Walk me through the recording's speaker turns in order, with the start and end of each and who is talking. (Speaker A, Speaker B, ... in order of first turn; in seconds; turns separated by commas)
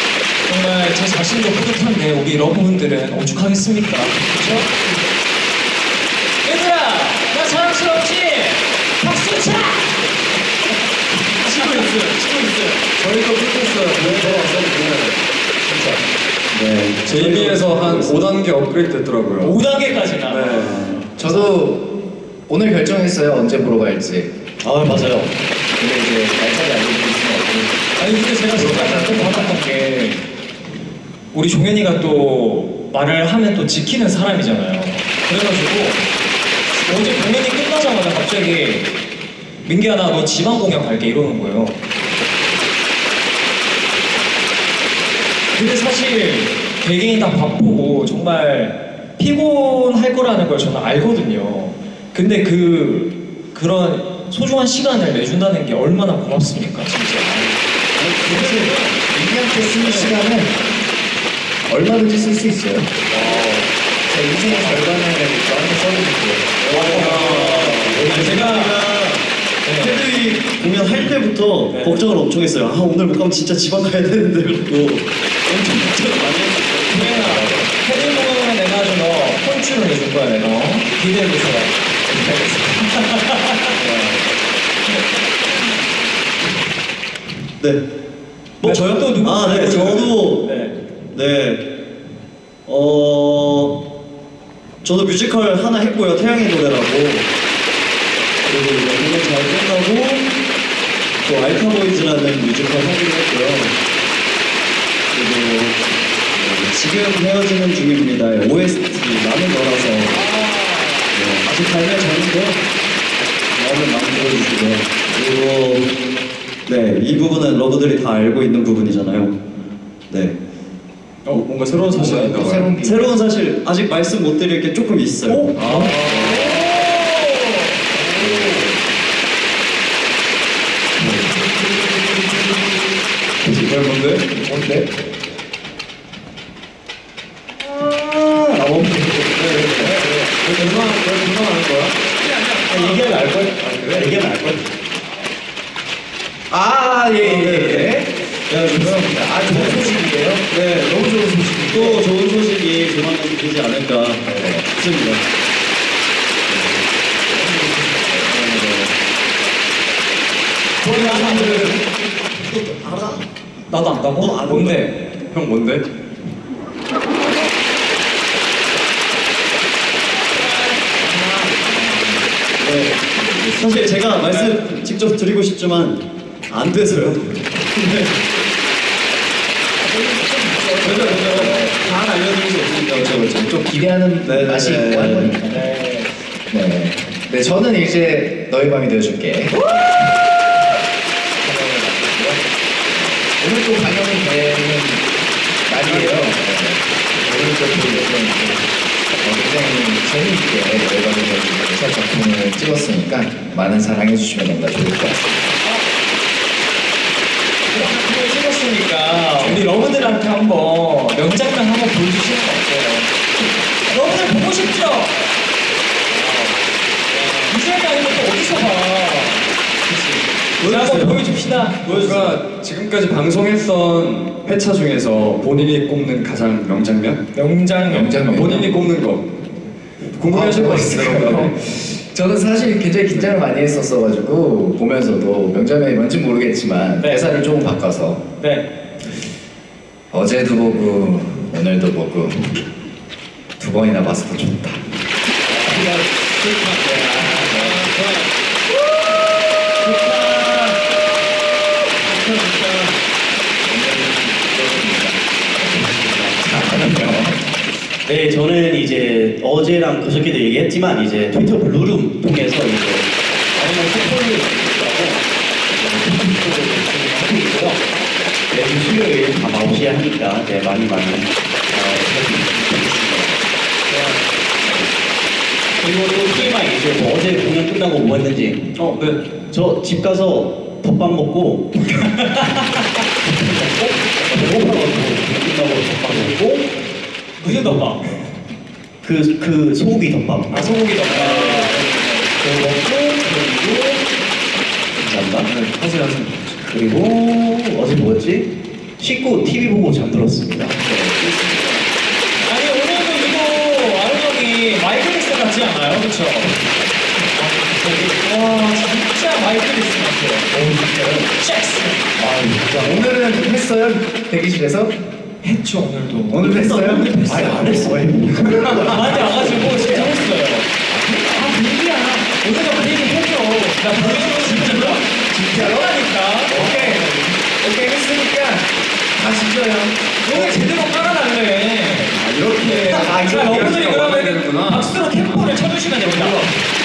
Speaker A: 0.4-4.7, Speaker A: 6.4-10.0, Speaker A: 11.3-12.8, Speaker B: 13.0-15.2, Speaker A: 14.0-14.7, Speaker A: 15.6-16.0, Speaker C: 16.5-18.2, Speaker B: 17.0-19.6, Speaker A: 19.4-21.5, Speaker B: 20.3-20.9, Speaker C: 20.8-21.0, Speaker D: 21.1-21.9, Speaker D: 22.5-24.3, Speaker E: 24.6-25.3, Speaker D: 25.8-27.9, Speaker A: 28.0-30.2, Speaker D: 28.5-29.6, Speaker A: 31.3-36.0, Speaker A: 36.9-38.9, Speaker A: 39.6-41.8, Speaker A: 45.5-57.6, Speaker C: 57.9-59.0, Speaker D: 58.3-60.6, Speaker C: 59.8-60.2, Speaker D: 61.7-62.9, Speaker B: 63.1-63.7, Speaker D: 64.0-66.5, Speaker A: 64.5-64.9, Speaker C: 66.6-69.3, Speaker A: 66.7-68.8, Speaker B: 66.8-68.0, Speaker A: 69.6-70.0, Speaker C: 69.8-78.0, Speaker A: 71.7-72.0, Speaker A: 76.9-83.8, Speaker C: 88.6-90.5, Speaker A: 88.6-90.8, Speaker C: 91.1-91.6, Speaker C: 92.7-93.8, Speaker C: 94.8-97.2, Speaker C: 98.4-100.3, Speaker C: 101.2-103.8, Speaker C: 105.1-105.8, Speaker C: 106.3-110.2, Speaker A: 110.1-111.2, Speaker C: 111.1-112.6, Speaker C: 113.5-115.9, Speaker C: 116.7-119.3, Speaker C: 120.1-120.4, Speaker B: 121.2-122.7, Speaker D: 121.9-123.1, Speaker C: 122.8-125.5, Speaker A: 125.2-128.6, Speaker B: 125.5-126.9, Speaker D: 126.1-126.4, Speaker D: 128.2-128.7, Speaker D: 131.1-132.1, Speaker B: 133.4-134.2, Speaker D: 134.3-134.9, Speaker E: 137.6-139.9, Speaker C: 139.5-139.9, Speaker D: 139.8-140.4, Speaker B: 140.4-142.0, Speaker A: 142.2-143.5, Speaker E: 142.7-144.7, Speaker B: 143.6-144.1, Speaker D: 146.5-152.1, Speaker C: 147.2-149.9, Speaker C: 150.5-151.0, Speaker C: 151.6-155.2, Speaker D: 154.2-154.7, Speaker C: 156.5-156.8, Speaker D: 157.3-158.3, Speaker C: 158.2-158.9, Speaker C: 160.8-163.2, Speaker A: 160.8-161.7, Speaker A: 163.7-164.9, Speaker C: 164.2-164.9, Speaker B: 165.3-165.8, Speaker A: 170.3-172.2, Speaker D: 171.1-172.0, Speaker C: 172.6-178.2, Speaker D: 173.2-173.7, Speaker D: 179.8-181.8, Speaker C: 180.8-183.4, Speaker D: 183.2-185.8, Speaker C: 184.2-185.4, Speaker A: 185.5-186.1, Speaker D: 186.5-189.7, Speaker D: 191.4-195.1, Speaker D: 195.7-198.7, Speaker D: 199.2-205.6, Speaker A: 205.6-205.9, Speaker A: 207.7-213.1, Speaker A: 213.9-215.2, Speaker A: 216.1-221.8, Speaker C: 220.6-221.3, Speaker C: 221.8-222.4, Speaker B: 221.8-227.2, Speaker A: 227.3-228.7, Speaker D: 227.9-228.6, Speaker B: 228.3-229.4, Speaker B: 230.1-231.5, Speaker D: 230.3-238.2, Speaker B: 233.1-233.4, Speaker A: 237.0-237.3, Speaker A: 238.4-238.7, Speaker D: 240.1-242.6, Speaker D: 243.6-244.8, Speaker D: 245.6-247.9, Speaker E: 247.2-247.7, Speaker C: 247.9-248.3, Speaker E: 249.8-250.7, Speaker E: 252.2-252.9, Speaker D: 253.6-257.4, Speaker E: 258.1-263.6, Speaker A: 263.9-264.4, Speaker A: 266.8-267.2, Speaker E: 268.5-273.4, Speaker E: 275.8-278.7, Speaker B: 278.7-279.2, Speaker E: 279.5-281.7, Speaker A: 281.9-282.8, Speaker E: 283.2-286.6, Speaker A: 287.4-288.2, Speaker E: 289.0-291.8, Speaker A: 290.5-292.0, Speaker D: 291.3-292.0, Speaker E: 292.4-294.1, Speaker E: 294.9-295.5, Speaker D: 295.6-296.4, Speaker E: 296.7-300.7, Speaker D: 300.7-301.9, Speaker A: 302.4-306.6, Speaker A: 307.3-310.6, Speaker D: 310.5-311.1, Speaker A: 311.3-312.1, Speaker D: 312.2-314.9, Speaker E: 312.2-313.0, Speaker A: 315.4-318.0, Speaker D: 316.3-317.7, Speaker E: 316.4-319.6, Speaker D: 318.5-320.2, Speaker A: 318.8-327.0, Speaker D: 320.9-321.3, Speaker D: 323.3-330.6, Speaker A: 330.2-336.5, Speaker B: 332.1-335.2, Speaker D: 332.6-333.8, Speaker B: 336.0-336.5